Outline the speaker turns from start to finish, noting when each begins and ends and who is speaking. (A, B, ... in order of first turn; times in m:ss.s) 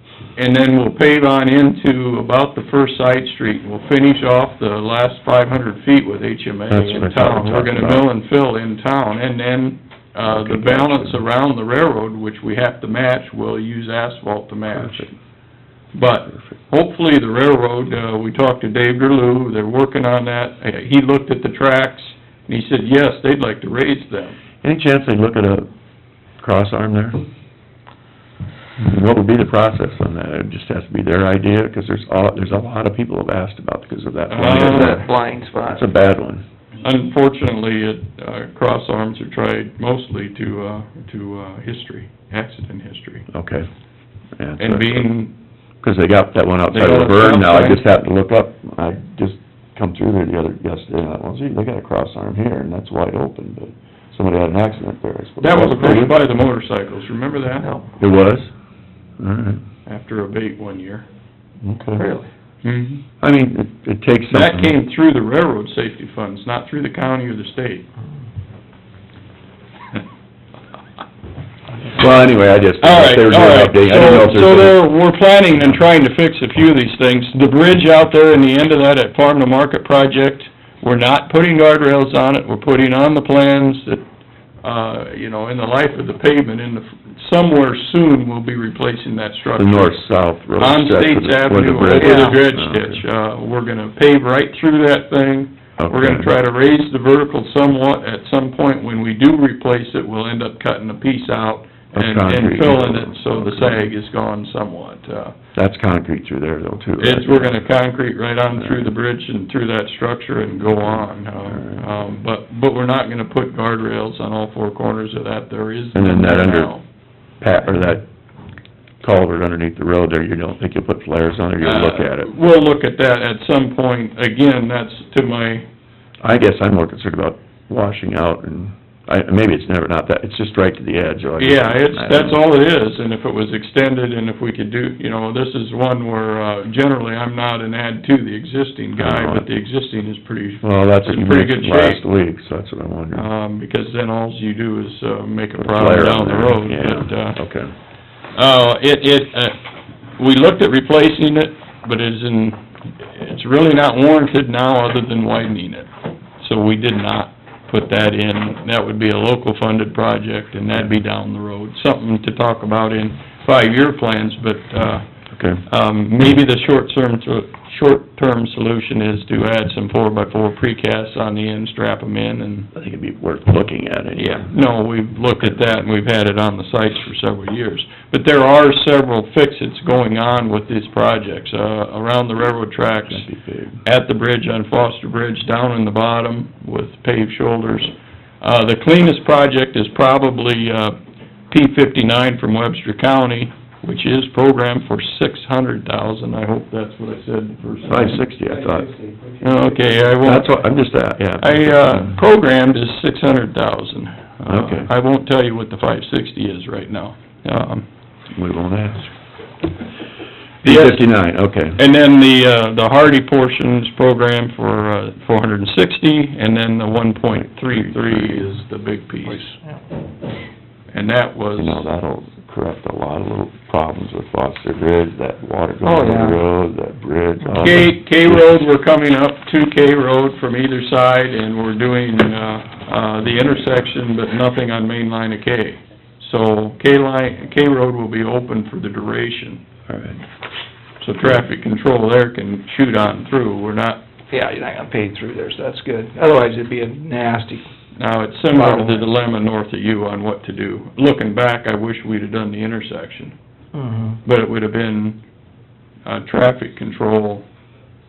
0:00.4-0:15.1 A
0:06.7-0:08.1 B
0:10.2-0:11.2 B
0:14.7-0:15.1 B
0:15.9-0:24.4 A
0:24.6-0:25.7 B
0:26.4-0:27.2 B
0:28.8-0:35.1 B
0:34.3-0:35.0 A
0:34.4-0:35.8 C
0:35.6-0:36.4 B
0:36.8-0:43.2 A
0:43.3-0:43.7 B
0:44.4-0:45.1 B
0:44.6-0:45.3 A
0:45.8-0:56.2 B
0:46.7-0:47.8 A
0:55.4-0:57.7 A
0:58.0-0:58.5 B
0:59.2-0:59.6 B
0:59.8-1:01.0 A
1:01.6-1:02.1 B
1:02.0-1:02.3 C
1:02.6-1:03.0 A
1:03.2-1:04.8 B
1:04.3-1:07.9 A
1:11.9-1:14.9 B
1:12.8-1:24.0 A
1:24.6-1:30.0 A
1:29.6-1:33.0 B
1:30.6-1:45.3 A
1:31.9-1:32.4 C
1:35.8-1:36.3 B
1:41.9-1:43.8 B
1:45.5-1:47.7 B
1:47.0-1:56.8 A
1:48.6-1:48.9 B
1:51.2-1:52.0 B
1:55.9-1:56.7 B
1:57.4-1:58.0 B
1:59.0-2:02.3 B
2:01.6-2:05.6 A
2:06.2-2:12.4 B
2:11.4-2:22.0 A
2:19.0-2:19.5 B
2:20.6-2:23.3 B
2:23.1-2:27.4 A
2:25.6-2:27.7 B
2:28.3-2:29.6 A
2:30.2-2:45.0 A
2:45.3-2:45.6 B
2:45.7-2:52.7 A
2:52.7-2:54.5 B
2:54.2-3:03.2 A
3:03.1-3:03.8 B
3:03.8-3:11.0 A
3:11.5-3:18.2 A
3:17.8-3:19.0 B
3:19.4-3:20.5 A
3:20.2-3:22.2 B
3:21.4-3:27.8 A
3:24.4-3:24.9 B
3:28.3-3:29.1 B
3:30.6-3:31.0 A
3:30.6-3:31.8 B
3:31.8-3:39.5 A
3:37.3-3:38.5 B
3:40.9-3:41.8 A
3:41.6-3:48.6 B
3:45.8-3:46.4 C
3:47.5-3:59.6 A
3:59.9-4:00.2 B
4:01.0-4:04.0 A
4:04.3-4:07.6 C
4:08.0-4:13.3 A
4:08.5-4:09.0 C
4:13.7-4:14.2 C
4:14.2-4:15.2 A
4:16.0-4:17.4 A